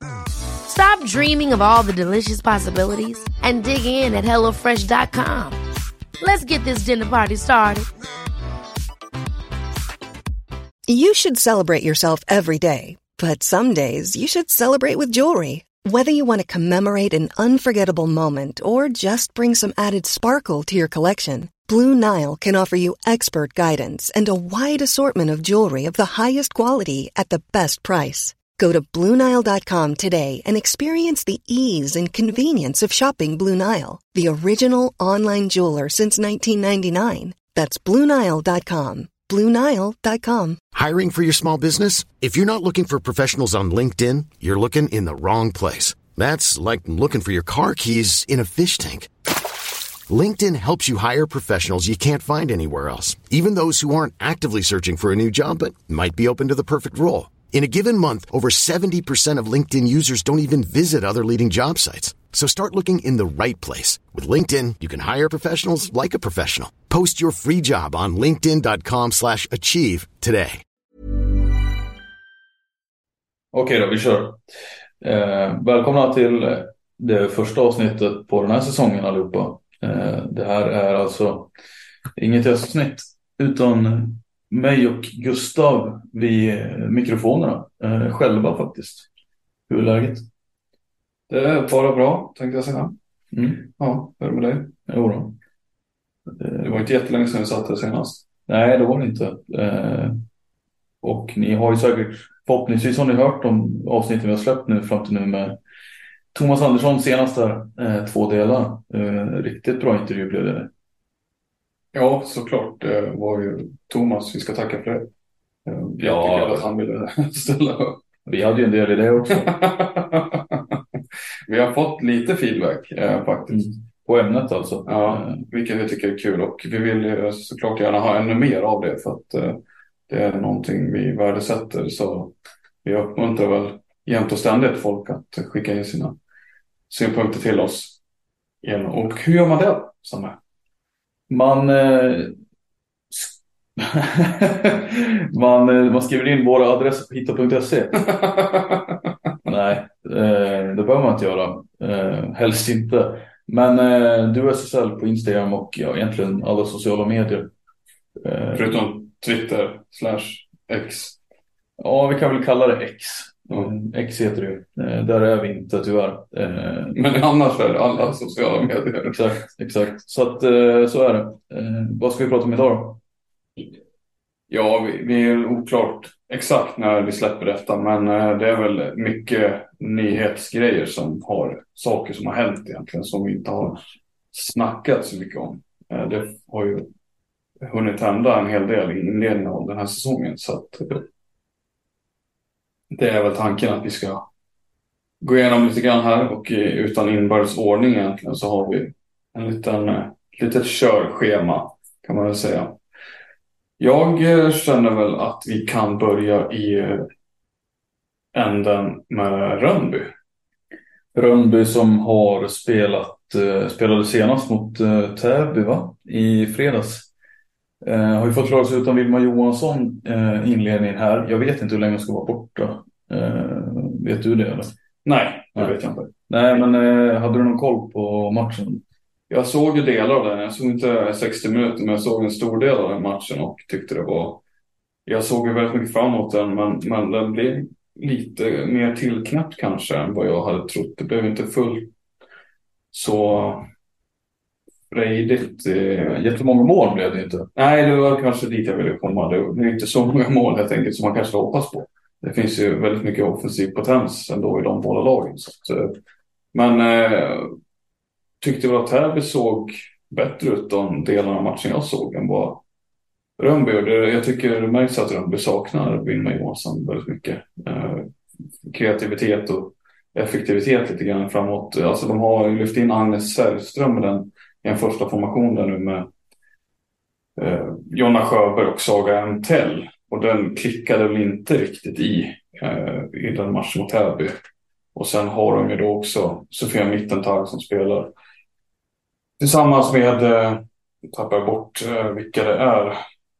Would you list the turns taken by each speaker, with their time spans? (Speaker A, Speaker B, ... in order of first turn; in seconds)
Speaker A: 0.7-5.6, 6.2-7.9
Speaker B: 10.9-40.6
Speaker C: 40.7-49.1, 50.1-70.6
Speaker D: 73.5-74.4, 75.0-81.5, 82.2-89.1, 89.7-90.2, 93.3-93.7, 94.9-95.4, 96.4-96.7, 98.5-100.2, 101.0-105.6, 106.3-110.7, 116.0-116.7, 118.2-119.5, 123.5-125.5, 141.3-142.3, 143.1-148.0, 149.4-157.5, 158.2-158.7, 161.8-166.9, 169.1-173.0, 211.1-217.1, 217.8-224.7, 226.3-228.8, 246.0-247.5
Speaker E: 91.3-92.9, 93.8-94.7, 96.6-98.3, 111.9-115.1, 115.7-118.0, 119.3-120.6, 121.5-123.7, 124.8-136.2, 136.9-138.0, 138.6-140.4, 148.0-148.8, 158.5-161.2, 166.9-169.2, 174.5-183.8, 184.3-186.9, 187.6-191.0, 192.9-194.2, 195.2-202.8, 203.8-207.1, 208.3-210.1, 225.0-226.1, 229.3-234.4, 235.1-241.9, 242.9-243.7, 244.9-246.2, 247.6-255.9, 256.5-257.5, 258.4-262.6, 263.4-268.1, 268.6-276.1, 277.4-284.3, 284.9-288.1, 289.4-293.0